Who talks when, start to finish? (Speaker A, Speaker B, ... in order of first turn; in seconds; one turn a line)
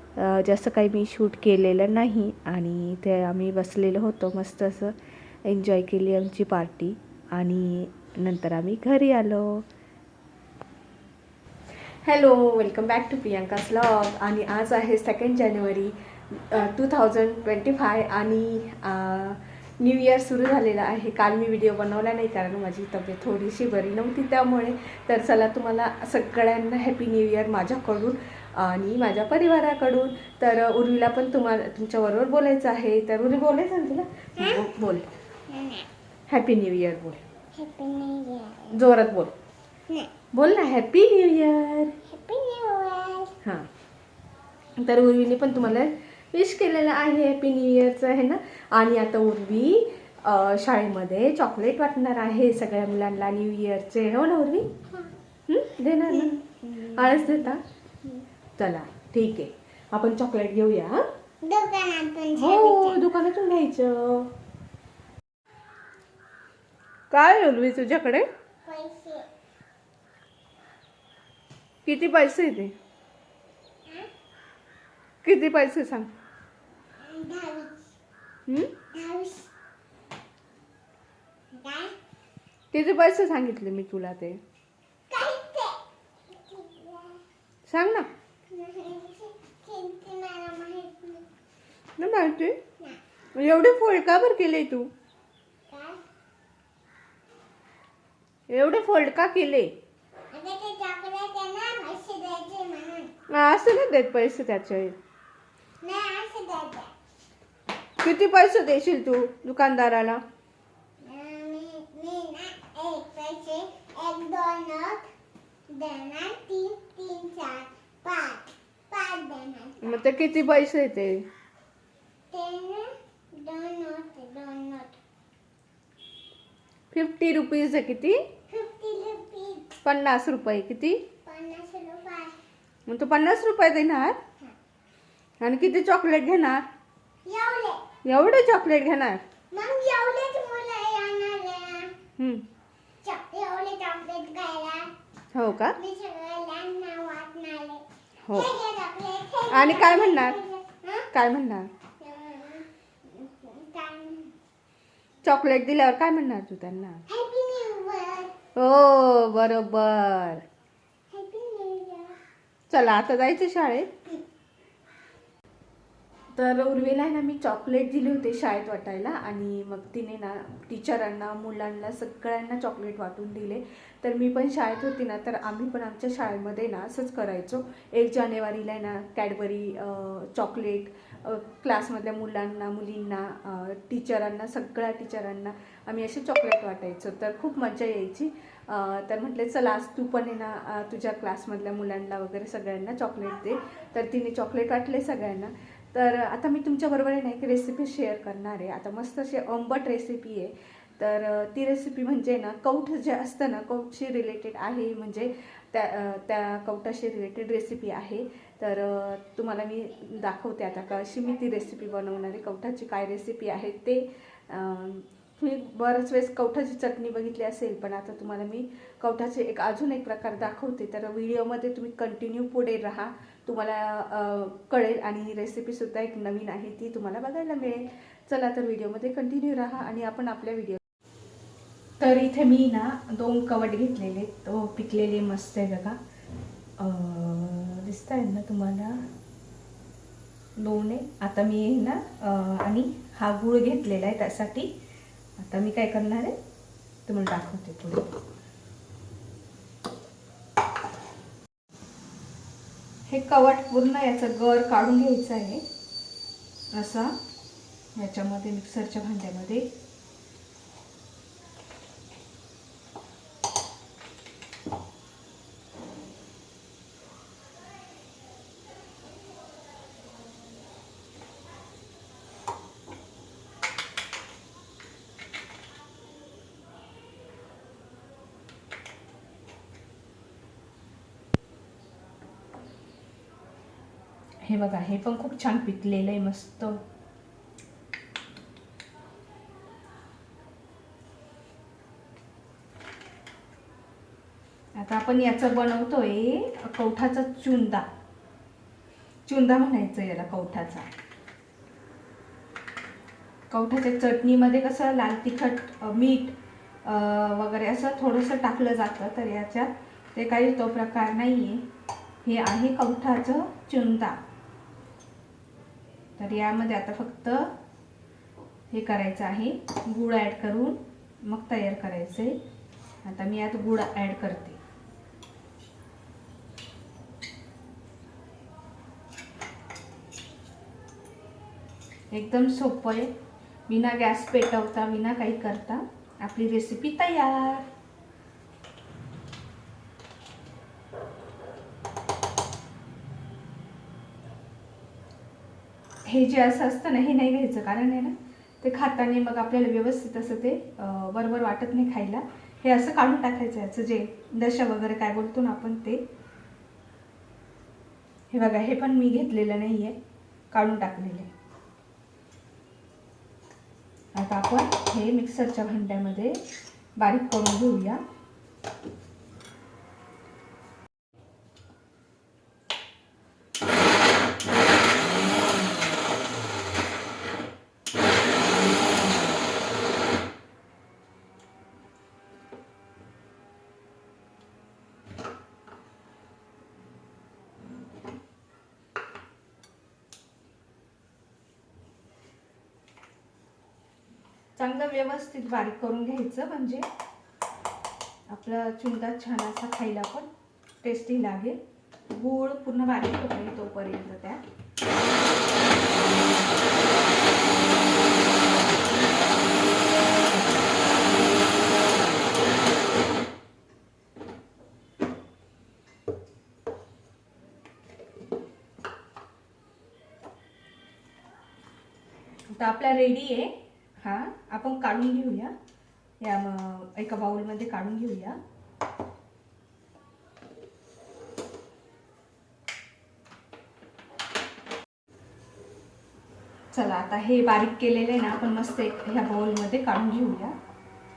Speaker A: 0.2-9.7
Speaker A: 12.0-35.1
Speaker B: 34.4-34.7
Speaker B: 35.5-35.9
Speaker A: 36.3-37.2
Speaker B: 37.5-38.7
Speaker A: 38.7-39.3
Speaker A: 40.3-42.0
Speaker B: 42.1-43.4
Speaker A: 44.8-54.7
Speaker A: 55.5-57.6
Speaker B: 56.1-57.5
Speaker A: 58.6-61.0
Speaker B: 61.4-63.0
Speaker A: 62.4-64.3
Speaker A: 67.1-68.3
Speaker B: 68.7-69.3
Speaker A: 71.8-72.7
Speaker A: 75.2-76.1
Speaker B: 77.0-77.8
Speaker B: 78.9-79.5
Speaker B: 81.5-81.9
Speaker A: 82.7-84.4
Speaker B: 85.1-87.2
Speaker A: 87.7-88.1
Speaker B: 88.5-91.3
Speaker A: 92.0-92.6
Speaker A: 93.3-94.9
Speaker B: 95.7-96.0
Speaker A: 98.5-99.7
Speaker B: 100.3-103.1
Speaker A: 103.3-105.0
Speaker B: 105.8-106.9
Speaker A: 108.0-110.2
Speaker B: 111.0-115.1
Speaker B: 115.7-120.1
Speaker A: 119.8-121.3
Speaker B: 122.3-125.0
Speaker A: 126.9-128.2
Speaker B: 128.5-129.8
Speaker A: 129.8-131.0
Speaker B: 131.2-132.4
Speaker A: 132.9-134.2
Speaker A: 135.4-136.7
Speaker B: 137.2-137.8
Speaker A: 138.1-139.2
Speaker B: 139.5-141.9
Speaker A: 142.2-142.4
Speaker B: 143.0-144.9
Speaker A: 145.3-145.8
Speaker B: 145.8-151.1
Speaker A: 148.3-148.5
Speaker A: 149.5-150.4
Speaker A: 151.1-151.7
Speaker B: 152.0-154.3
Speaker A: 155.2-157.0
Speaker B: 157.1-158.3
Speaker A: 158.6-160.4
Speaker B: 161.1-162.2
Speaker A: 162.7-163.9
Speaker A: 166.3-230.8
Speaker A: 232.0-236.0
Speaker A: 236.8-239.0
Speaker A: 240.6-244.7
Speaker A: 245.4-246.3
Speaker A: 247.1-248.1
Speaker A: 253.1-255.6
Speaker A: 256.7-257.1
Speaker A: 258.0-259.7
Speaker A: 284.4-286.8
Speaker A: 294.8-297.9
Speaker A: 299.3-300.9
Speaker A: 303.5-311.6
Speaker A: 312.2-314.2
Speaker A: 316.2-317.5
Speaker A: 318.7-322.4
Speaker A: 323.0-324.6
Speaker A: 332.1-333.1
Speaker A: 333.7-337.7
Speaker A: 346.1-356.0
Speaker A: 358.3-359.9
Speaker A: 360.5-361.3
Speaker A: 364.1-366.4
Speaker A: 367.0-368.0
Speaker A: 394.6-396.9
Speaker A: 398.3-400.3
Speaker A: 400.8-401.6
Speaker A: 402.1-404.4
Speaker A: 422.6-425.5
Speaker A: 426.2-428.4
Speaker A: 436.7-440.6